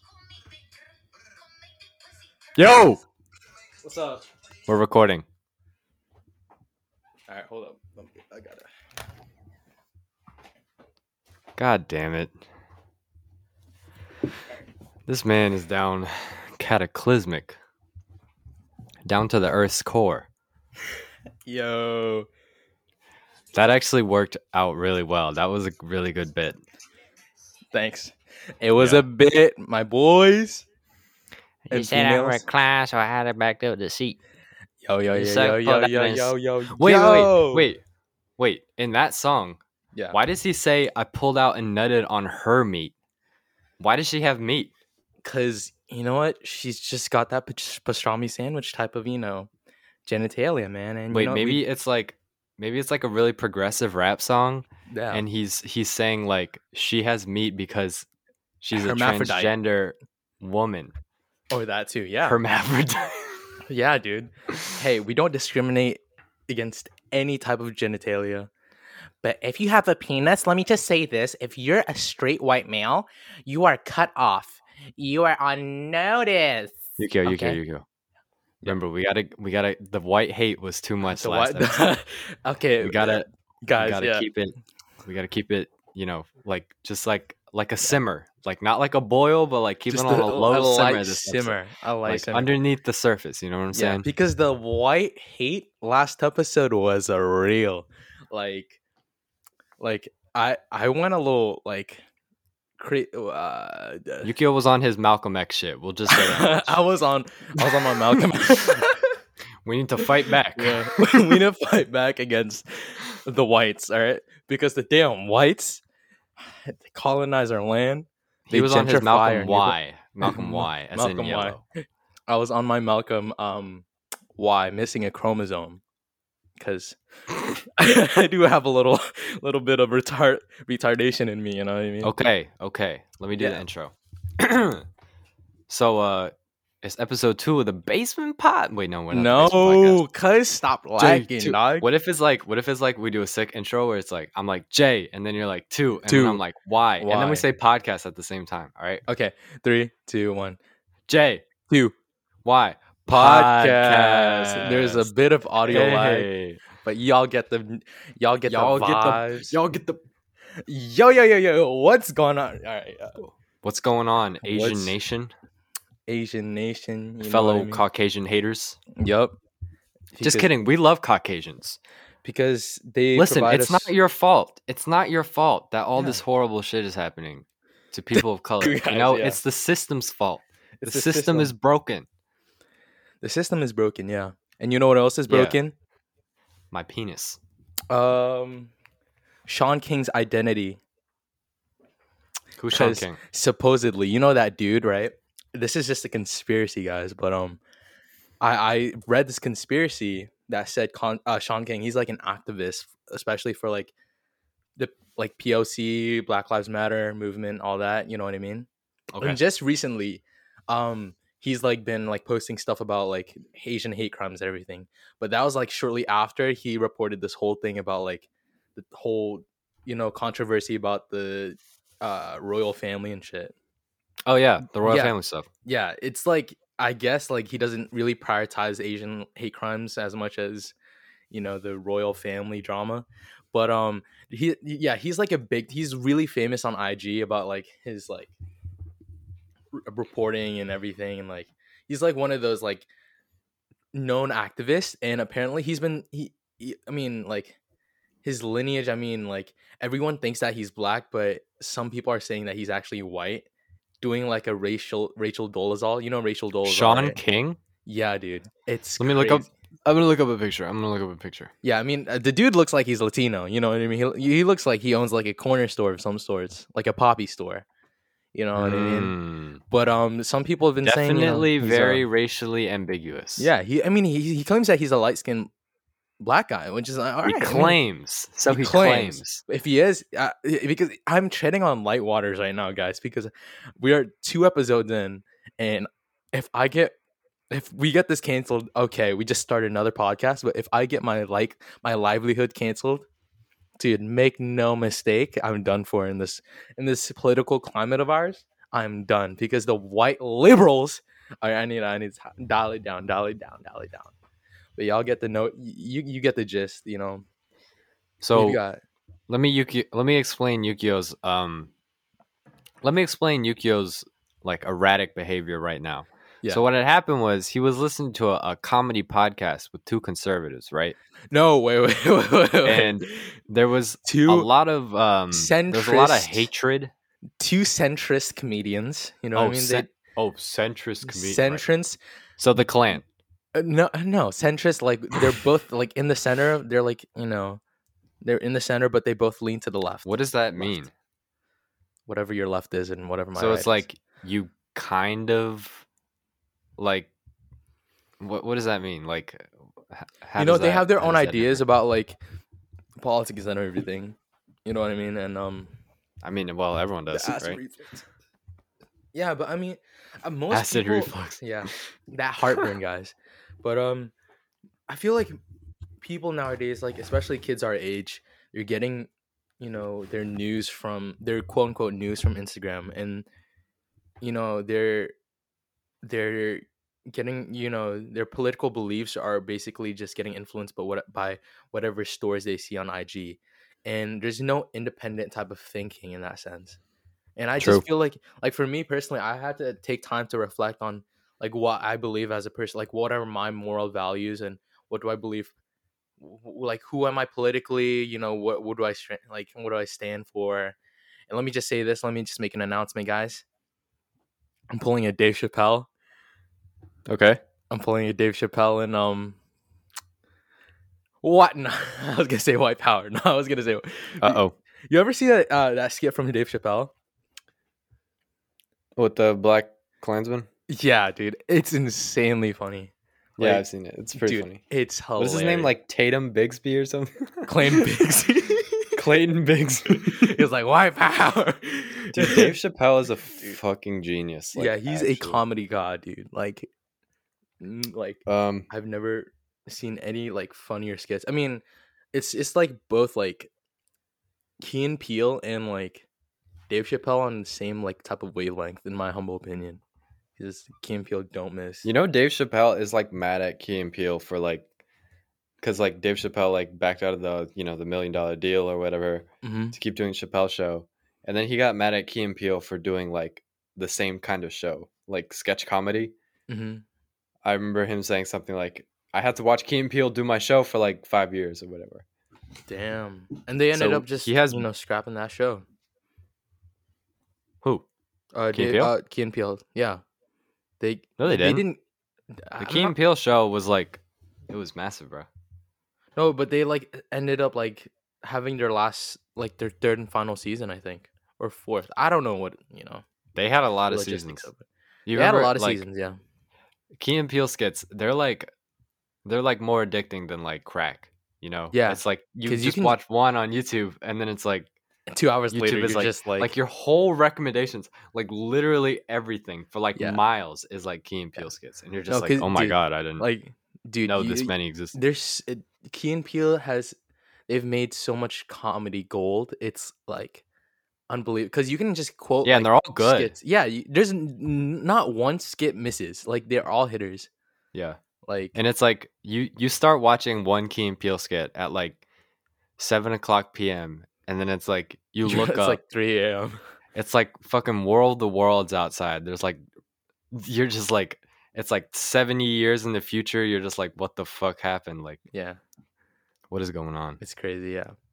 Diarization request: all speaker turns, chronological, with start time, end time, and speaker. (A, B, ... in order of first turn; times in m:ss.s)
0:02.6-0:03.0 A
0:03.8-0:04.2 B
0:04.7-0:05.2 A
0:07.3-0:08.6 B
0:11.6-0:12.4 A
0:15.1-0:17.6 A
0:19.0-0:20.3 A
0:21.5-0:22.3 B
0:23.5-0:26.6 A
0:27.7-0:30.6 B
0:28.8-0:29.1 A
0:31.7-0:34.2 C
0:31.7-0:32.4 B
0:34.8-0:37.7 B
0:35.1-0:37.8 A
0:38.4-0:39.6 A
0:40.1-0:42.9 A
0:43.8-0:44.7 A
0:45.2-0:49.5 B
0:50.1-0:51.6 B
0:51.1-0:58.1 A
0:54.9-0:55.2 B
0:58.6-1:00.9 A
0:58.7-0:59.5 B
1:01.5-1:02.4 B
1:02.2-1:03.5 A
1:03.7-1:08.5 B
1:09.2-1:17.6 B
1:17.0-1:17.8 A
1:18.6-1:21.9 A
1:21.1-1:24.3 B
1:22.8-1:23.3 A
1:23.8-1:24.5 A
1:25.0-1:34.1 A
1:29.9-1:32.6 B
1:33.7-1:38.8 B
1:39.8-1:42.0 B
1:42.8-1:44.3 B
1:44.2-1:46.8 A
1:46.1-1:49.1 B
1:48.3-1:48.8 A
1:49.6-1:51.4 A
1:50.6-1:55.8 B
1:56.5-2:01.6 B
1:58.5-2:01.6 A
2:02.3-2:03.9 B
2:04.4-2:05.8 B
2:06.6-2:07.0 B
2:07.5-2:12.1 B
2:12.0-2:14.8 A
2:13.4-2:13.6 B
2:15.7-2:20.0 A
2:19.1-2:21.9 B
2:21.0-2:29.0 A
2:26.1-2:26.4 B
2:27.0-2:27.5 B
2:29.1-2:30.6 B
2:31.1-2:31.4 A
2:31.7-2:31.9 B
2:32.4-2:35.1 A
2:33.1-2:36.3 B
2:35.6-2:36.6 A
2:36.8-2:39.6 B
2:38.5-2:39.9 A
2:40.7-2:43.2 B
2:43.2-2:45.3 A
2:44.4-2:45.0 B
2:46.1-2:47.8 B
2:47.2-2:48.8 A
2:49.0-2:49.4 B
2:50.1-2:50.5 B
2:50.2-2:51.8 A
2:52.2-2:53.9 B
2:53.2-3:02.1 A
2:58.1-2:59.4 B
3:00.8-3:01.5 B
3:03.2-3:05.8 B
3:05.3-3:05.6 A
3:06.7-3:07.4 A
3:07.9-3:08.7 B
3:09.5-3:10.8 B
3:12.6-3:13.2 A
3:12.7-3:17.6 B
3:18.4-3:23.9 B
3:24.8-3:28.7 B
3:29.1-3:29.4 A
3:29.2-3:43.6 B
3:44.2-3:45.5 A
3:44.8-3:50.7 B
3:51.3-3:58.3 B
3:59.8-4:02.9 B
4:03.9-4:07.6 B
4:08.2-4:13.5 B
4:14.0-4:17.2 B
4:16.6-4:17.6 A
4:17.8-4:19.5 B
4:19.0-4:21.5 A
4:21.6-4:27.6 B
4:28.3-4:29.2 B
4:28.6-4:29.6 A
4:29.7-4:32.0 B
4:30.8-4:33.5 A
4:33.4-4:35.5 B
4:36.2-4:37.8 B
4:37.2-4:39.4 A
4:38.5-4:47.0 B
4:47.5-4:53.1 B
4:53.8-5:04.1 B
5:04.8-5:07.2 B
5:08.2-5:08.6 A
5:08.3-5:08.8 B
5:09.3-5:11.7 A
5:12.8-5:21.0 A
5:21.3-5:23.3 B
5:22.6-5:26.9 A
5:24.0-5:24.5 B
5:25.3-5:26.5 B
5:27.4-5:29.9 B
5:29.4-5:31.6 A
5:31.0-5:32.0 B
5:32.4-5:33.0 A
5:33.6-5:37.6 B
5:38.2-5:40.8 B
5:40.0-5:40.9 A
5:42.1-5:43.8 B
5:43.4-5:45.8 A
5:46.8-5:47.1 A
5:48.2-5:51.6 A
5:50.4-5:52.2 B
5:53.0-5:55.7 B
5:56.2-5:57.6 A
5:57.1-5:58.0 B
5:59.1-6:04.1 B
6:00.5-6:01.4 A
6:04.9-6:05.4 B
6:06.0-6:13.3 B
6:14.2-6:15.1 B
6:16.0-6:26.8 B
6:27.4-6:35.5 B
6:27.6-6:27.8 A
6:36.2-6:40.8 B
6:41.3-6:43.4 B
6:44.7-6:45.9 B
6:47.1-6:47.4 A
6:47.7-6:49.4 B
6:51.2-6:56.9 B
6:54.2-6:54.5 A
6:59.0-7:00.5 A
7:00.7-7:05.7 B
7:03.4-7:04.6 A
7:05.2-7:07.9 A
7:07.5-7:09.0 B
7:09.0-7:10.4 A
7:09.9-7:12.5 B
7:12.1-7:15.4 A
7:14.6-7:16.7 B
7:17.6-7:21.6 B
7:18.3-7:18.7 A
7:22.1-7:23.5 B
7:24.6-7:26.1 B
7:26.7-7:29.8 B
7:30.4-7:31.9 B
7:31.8-7:34.7 A
7:35.6-7:46.1 A
7:39.4-7:39.8 B
7:46.5-7:46.8 B
7:47.4-7:52.0 A
7:52.7-7:55.6 B
7:53.7-7:54.6 A
7:58.3-8:00.0 B
7:58.5-7:58.9 A
8:00.8-8:01.8 B
8:01.2-8:01.6 A
8:02.4-8:03.0 B
8:02.6-8:05.3 A
8:06.2-8:13.0 B
8:13.4-8:14.5 A
8:13.9-8:14.6 B
8:15.1-8:15.8 A
8:15.1-8:16.2 B
8:17.0-8:18.5 A
8:19.2-8:24.7 A
8:21.7-8:23.0 B
8:25.1-8:26.5 B
8:25.5-8:33.3 A
8:32.1-8:37.0 B
8:34.1-8:35.0 A
8:37.5-8:40.4 B
8:41.1-8:47.3 B
8:42.4-8:43.4 A
8:47.7-8:48.0 A
8:48.3-8:48.6 B
8:48.5-8:52.0 A
8:52.8-8:55.8 A
8:55.2-8:56.6 B
8:56.9-8:59.6 A
9:00.3-9:05.2 A
9:05.3-9:05.6 B
9:06.5-9:07.2 A
9:07.2-9:07.9 B